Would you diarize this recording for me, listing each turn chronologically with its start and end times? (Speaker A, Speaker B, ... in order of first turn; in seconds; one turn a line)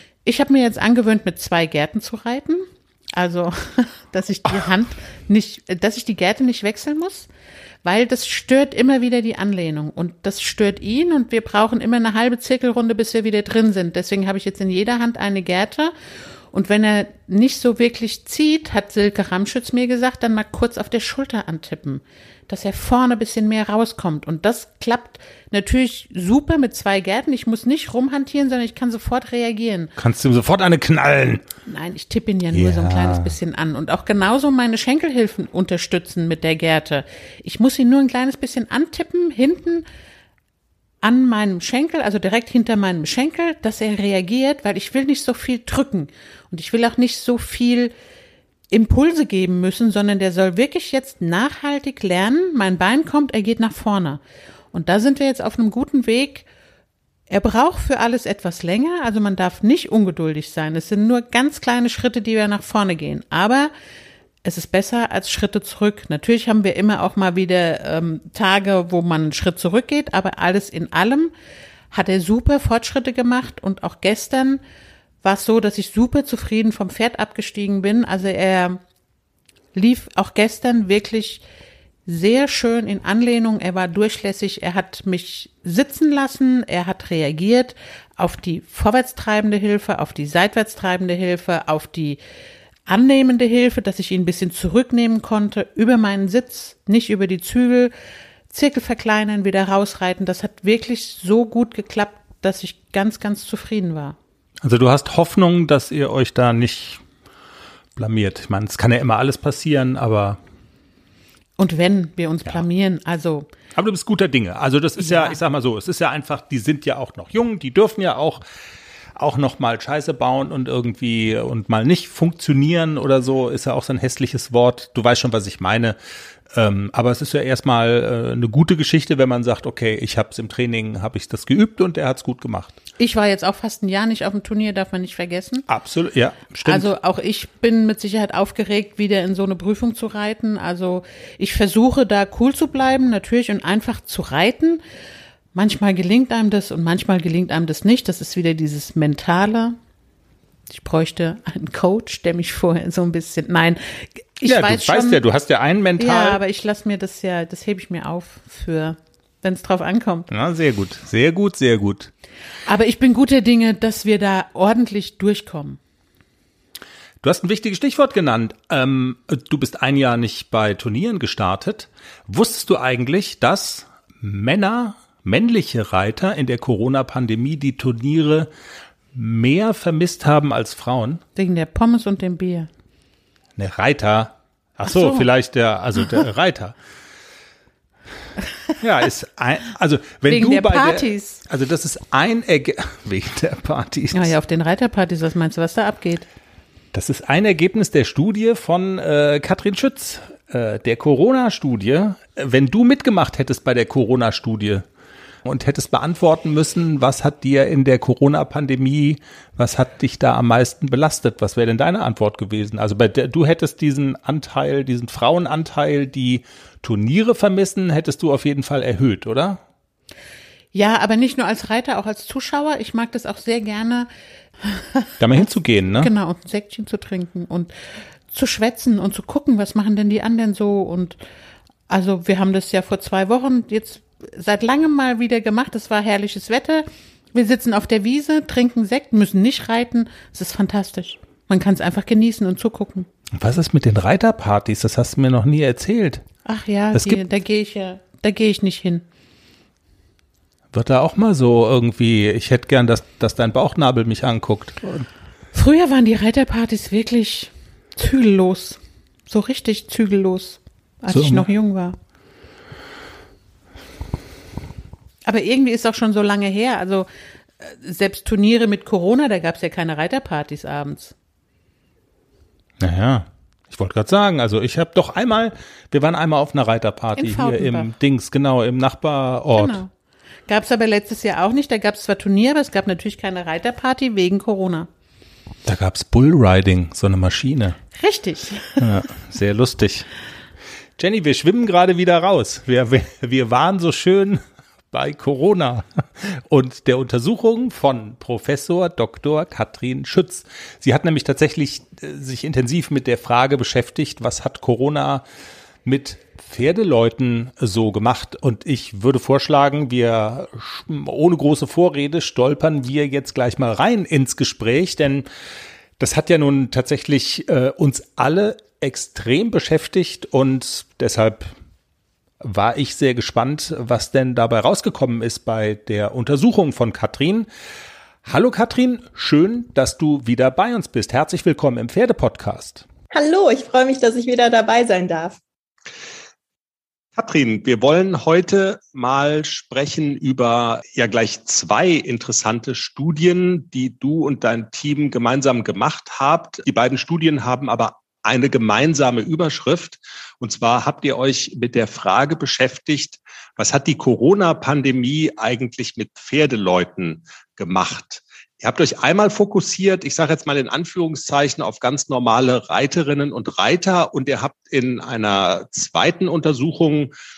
Speaker A: 0.2-7.3
Speaker A: 7.8-15.9
Speaker A: 16.5-29.9
Speaker B: 30.0-31.4
Speaker A: 31.6-39.8
Speaker B: 32.5-33.3
Speaker A: 41.0-47.9
Speaker A: 48.7-54.2
Speaker A: 54.7-56.5
Speaker A: 57.3-63.7
Speaker A: 64.4-71.3
Speaker A: 71.9-74.6
Speaker A: 75.2-78.8
Speaker A: 79.7-81.4
Speaker A: 82.0-92.2
Speaker A: 92.9-97.9
Speaker A: 98.5-104.2
Speaker B: 104.6-107.0
Speaker B: 108.0-110.4
Speaker A: 111.6-113.5
Speaker B: 113.7-118.4
Speaker A: 115.0-115.4
Speaker B: 119.2-126.0
Speaker B: 126.5-132.8
Speaker A: 133.0-135.7
Speaker B: 135.7-136.9
Speaker A: 136.6-144.8
Speaker A: 145.5-149.8
Speaker A: 150.7-155.2
Speaker B: 154.4-156.4
Speaker A: 156.0-160.3
Speaker B: 160.3-162.1
Speaker A: 162.7-165.8
Speaker B: 167.2-178.5
Speaker B: 179.1-181.2
Speaker A: 181.3-182.7
Speaker B: 183.6-186.8
Speaker A: 184.8-185.3
Speaker B: 188.8-194.3
Speaker A: 190.3-191.4
Speaker A: 194.1-196.3
Speaker B: 196.9-204.8
Speaker B: 205.4-219.6
Speaker A: 220.7-224.1
Speaker A: 224.6-225.1
Speaker B: 225.2-226.1
Speaker A: 226.0-227.7
Speaker A: 228.3-231.2
Speaker A: 231.9-243.1
Speaker B: 243.3-246.2
Speaker A: 246.4-249.0
Speaker B: 246.9-247.2
Speaker B: 250.7-255.1
Speaker A: 255.5-261.9
Speaker B: 261.1-261.5
Speaker A: 265.2-267.1
Speaker A: 267.6-271.1
Speaker B: 272.8-279.8
Speaker A: 277.1-277.9
Speaker A: 279.5-279.9
Speaker A: 280.5-284.9
Speaker B: 285.6-287.8
Speaker A: 287.9-288.9
Speaker B: 288.8-290.1
Speaker B: 291.0-305.2
Speaker B: 305.8-315.2
Speaker B: 316.0-321.5
Speaker B: 322.4-327.5
Speaker B: 328.2-332.9
Speaker C: 333.1-335.4
Speaker D: 337.1-367.1